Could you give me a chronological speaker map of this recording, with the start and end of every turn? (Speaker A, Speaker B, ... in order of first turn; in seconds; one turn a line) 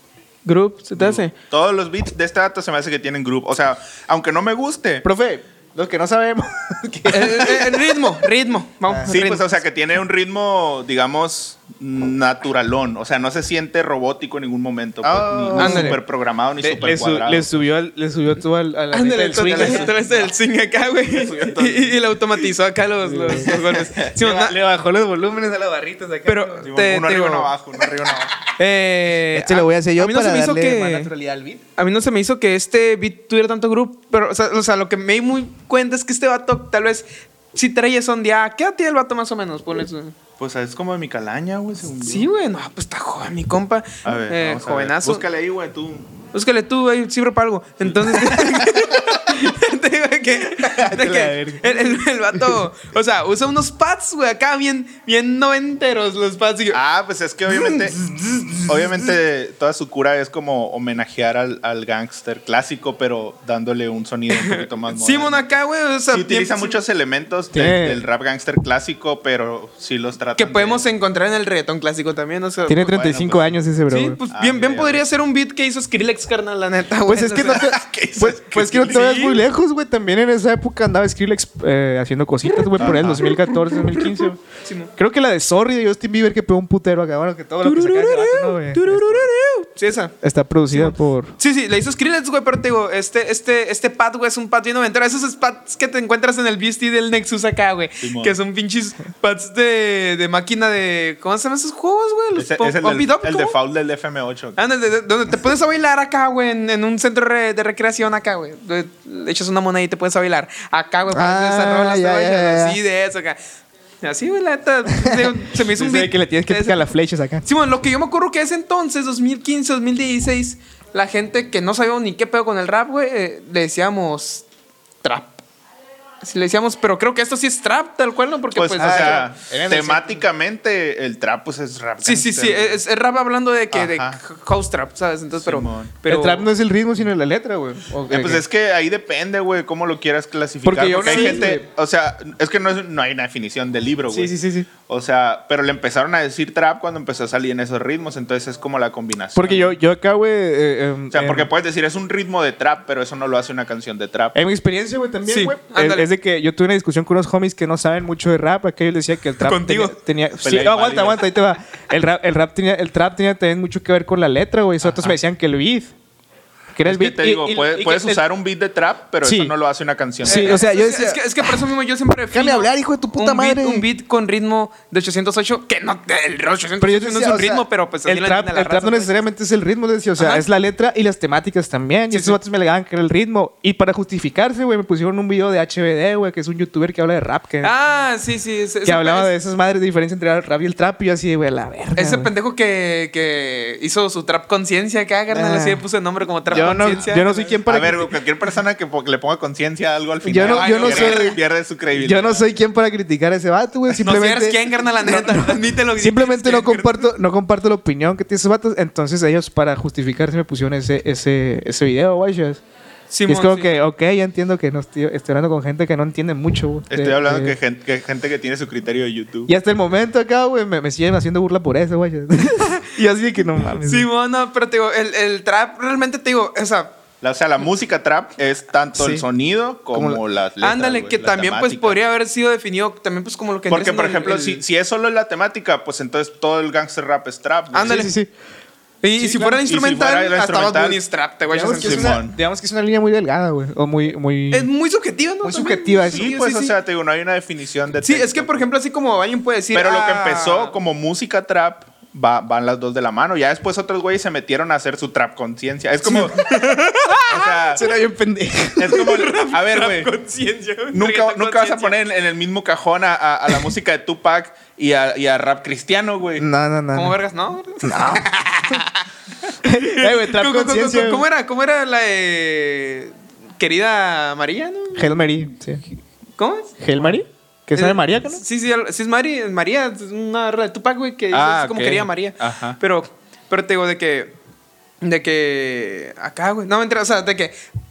Speaker A: 0.4-1.3
Speaker B: 1.0-5.0
Speaker C: 5.0-8.0
Speaker A: 7.1-9.4
Speaker C: 8.9-9.2
Speaker B: 9.1-17.7
Speaker C: 15.0-16.0
Speaker A: 15.5-16.0
Speaker C: 16.6-19.9
Speaker A: 18.9-24.6
Speaker B: 19.4-20.3
Speaker B: 21.1-22.0
Speaker C: 23.0-23.6
Speaker B: 23.4-24.2
Speaker C: 24.2-26.7
Speaker A: 26.3-27.5
Speaker B: 26.6-28.3
Speaker A: 28.6-31.1
Speaker C: 29.3-31.6
Speaker A: 31.8-40.1
Speaker B: 40.4-42.3
Speaker A: 42.0-45.2
Speaker B: 44.0-46.1
Speaker A: 46.3-56.8
Speaker B: 47.8-49.0
Speaker C: 50.7-51.9
Speaker B: 56.7-58.0
Speaker A: 57.5-57.9
Speaker B: 58.6-65.4
Speaker A: 64.3-66.8
Speaker B: 66.1-70.8
Speaker C: 67.5-68.0
Speaker A: 70.4-73.1
Speaker C: 72.7-74.2
Speaker B: 72.9-73.6
Speaker A: 73.9-77.6
Speaker B: 74.3-75.0
Speaker C: 77.1-84.4
Speaker B: 77.4-79.2
Speaker A: 78.7-79.4
Speaker B: 82.8-83.3
Speaker A: 83.2-84.9
Speaker C: 85.0-89.3
Speaker A: 87.6-90.2
Speaker C: 90.2-91.3
Speaker A: 90.7-103.5
Speaker B: 98.0-98.3
Speaker B: 102.3-104.6
Speaker A: 104.6-113.4
Speaker C: 111.1-112.8
Speaker A: 114.0-116.8
Speaker C: 114.9-117.5
Speaker A: 117.4-124.4
Speaker A: 125.0-125.4
Speaker A: 126.2-129.3
Speaker B: 128.5-132.8
Speaker C: 128.8-130.2
Speaker A: 132.0-136.5
Speaker B: 133.7-134.2
Speaker B: 135.3-135.9
Speaker C: 136.1-138.4
Speaker B: 138.1-149.7
Speaker C: 140.6-141.6
Speaker A: 141.0-141.4
Speaker C: 144.1-144.7
Speaker C: 149.3-151.5
Speaker B: 151.1-154.3
Speaker C: 154.3-165.9
Speaker A: 155.2-156.1
Speaker A: 159.4-159.9
Speaker B: 160.4-161.3
Speaker B: 164.8-165.2
Speaker C: 166.7-167.8
Speaker B: 166.8-170.6
Speaker A: 167.7-168.2
Speaker C: 169.2-169.5
Speaker C: 170.2-171.6
Speaker A: 170.2-179.2
Speaker C: 172.3-173.8
Speaker C: 176.8-187.7
Speaker A: 180.2-180.4
Speaker A: 182.1-182.4
Speaker A: 187.6-189.3
Speaker C: 188.8-192.3
Speaker A: 191.9-197.5
Speaker C: 195.3-195.8
Speaker B: 196.5-197.0
Speaker C: 196.5-198.1
Speaker B: 197.7-202.5
Speaker C: 200.2-201.4
Speaker A: 200.4-201.4
Speaker C: 201.9-212.6
Speaker A: 204.0-207.1
Speaker A: 213.1-213.7
Speaker C: 213.3-217.6
Speaker B: 216.9-219.5
Speaker C: 219.5-224.1
Speaker A: 223.8-226.9
Speaker B: 227.2-232.0
Speaker C: 228.9-229.2
Speaker C: 229.9-230.2
Speaker A: 230.6-234.6
Speaker B: 233.7-238.1
Speaker A: 237.7-238.1
Speaker C: 237.8-238.3
Speaker A: 239.0-242.2
Speaker B: 239.2-241.0
Speaker C: 241.5-244.7
Speaker B: 241.8-242.3
Speaker A: 244.5-246.7
Speaker C: 245.4-246.3
Speaker B: 246.1-248.6
Speaker A: 248.0-250.8
Speaker B: 249.7-256.6
Speaker A: 256.1-257.8
Speaker B: 257.2-257.8
Speaker C: 257.7-259.0
Speaker B: 258.8-260.1
Speaker A: 258.9-262.0
Speaker B: 260.9-266.4
Speaker C: 266.4-267.2
Speaker A: 266.9-269.0
Speaker C: 267.8-268.3
Speaker C: 269.6-271.2
Speaker A: 269.7-275.1
Speaker C: 274.9-275.8
Speaker A: 276.4-277.1
Speaker C: 276.8-278.4
Speaker A: 277.7-284.3
Speaker B: 281.3-282.8
Speaker A: 285.0-287.5